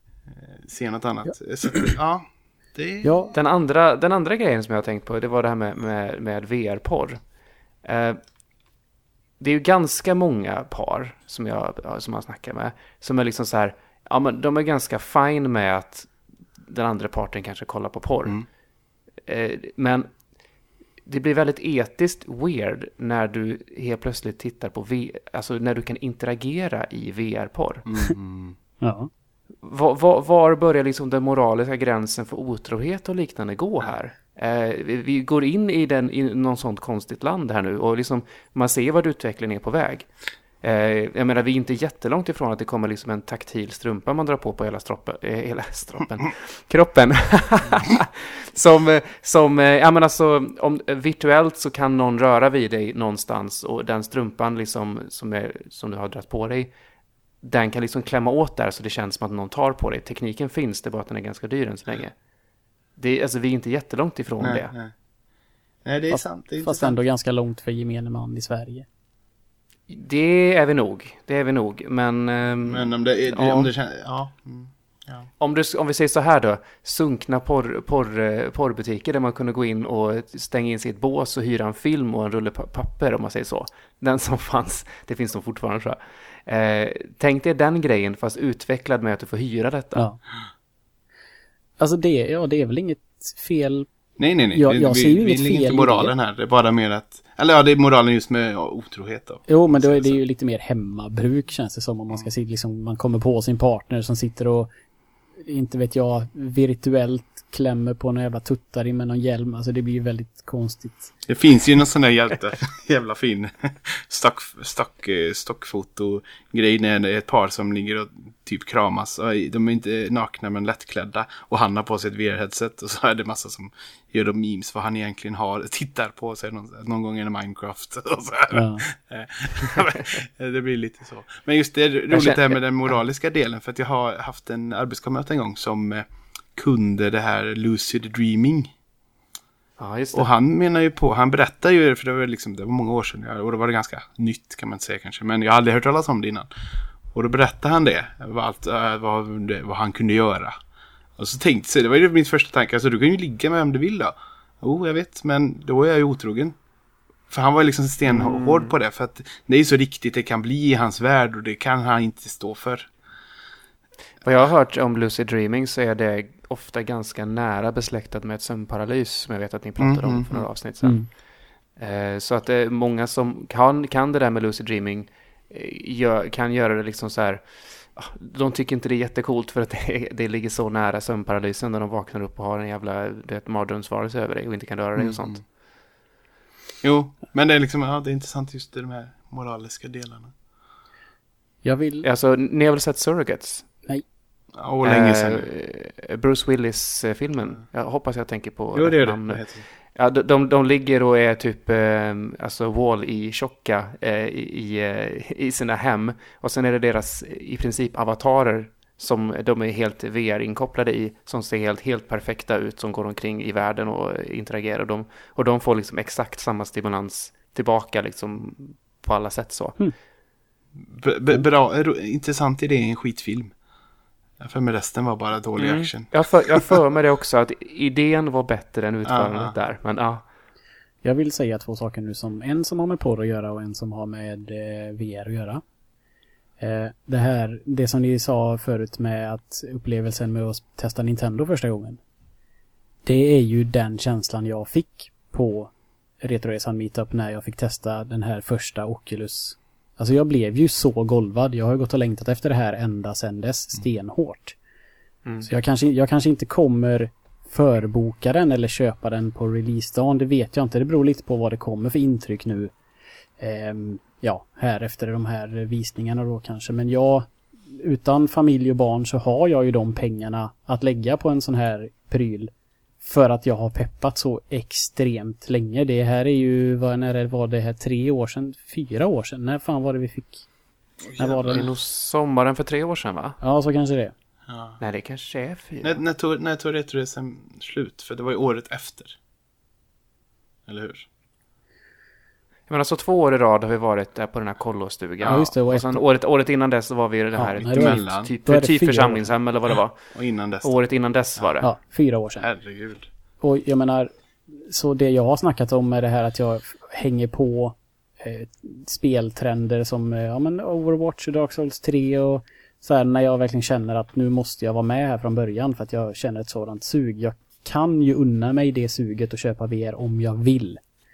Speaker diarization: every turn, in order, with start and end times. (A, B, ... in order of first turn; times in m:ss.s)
0:00.3-0:03.1 A
0:03.0-0:03.3 B
0:03.3-0:07.2 C
0:07.8-0:08.2 C
0:09.4-0:18.4 C
0:19.2-0:20.1 C
0:21.0-0:27.8 C
0:27.8-0:28.6 A
0:28.8-0:29.1 B
0:29.6-0:40.1 C
0:40.6-0:56.7 C
0:57.4-1:02.1 C
1:03.0-1:04.7 C
1:04.4-1:04.9 A
1:05.8-1:07.0 A
1:06.1-1:08.8 B
1:09.9-1:13.7 C
1:12.7-1:15.3 A
1:15.4-1:30.0 C
1:31.8-1:33.9 B
1:34.2-1:40.2 A
1:34.5-1:36.1 B
1:39.5-1:44.7 B
1:45.4-1:51.1 B
1:51.3-2:18.7 A
2:08.5-2:08.8 B
2:12.1-2:12.6 C
2:19.8-2:20.3 C
2:20.1-2:26.5 A
2:27.1-2:30.6 A
2:31.2-2:36.6 A
2:37.3-2:42.9 A
2:38.0-2:38.7 C
2:44.2-2:51.0 C
2:49.8-2:50.5 A
2:50.8-2:51.1 B
2:51.8-3:05.4 C
3:05.0-3:05.4 A
3:06.8-3:10.3 A
3:11.6-3:12.0 B
3:12.0-3:13.7 C
3:14.5-3:15.5 A
3:14.8-3:39.8 C
3:18.7-3:19.7 A
3:40.8-3:43.5 A
3:44.4-3:46.6 A
3:45.6-3:50.2 C
3:49.0-3:49.5 A
3:51.0-3:55.6 B
3:56.6-4:02.0 B
4:03.0-4:05.7 B
4:06.2-4:14.6 B
4:15.4-4:22.7 B
4:23.4-4:32.5 B
4:33.0-4:40.4 B
4:41.0-4:41.7 A
4:41.2-4:41.6 B
4:41.5-4:43.4 C
4:43.4-4:44.1 B
4:44.5-4:44.8 A
4:44.8-4:46.0 C
4:45.8-4:49.2 A
4:50.7-4:51.1 A
4:52.7-5:00.1 C
4:55.2-4:55.5 A
4:55.3-4:56.0 B
4:57.3-4:59.3 B
4:57.6-4:58.3 A
5:00.1-5:00.7 A
5:00.6-5:01.7 C
5:01.6-5:02.5 B
5:02.4-5:03.1 A
5:03.4-5:20.8 B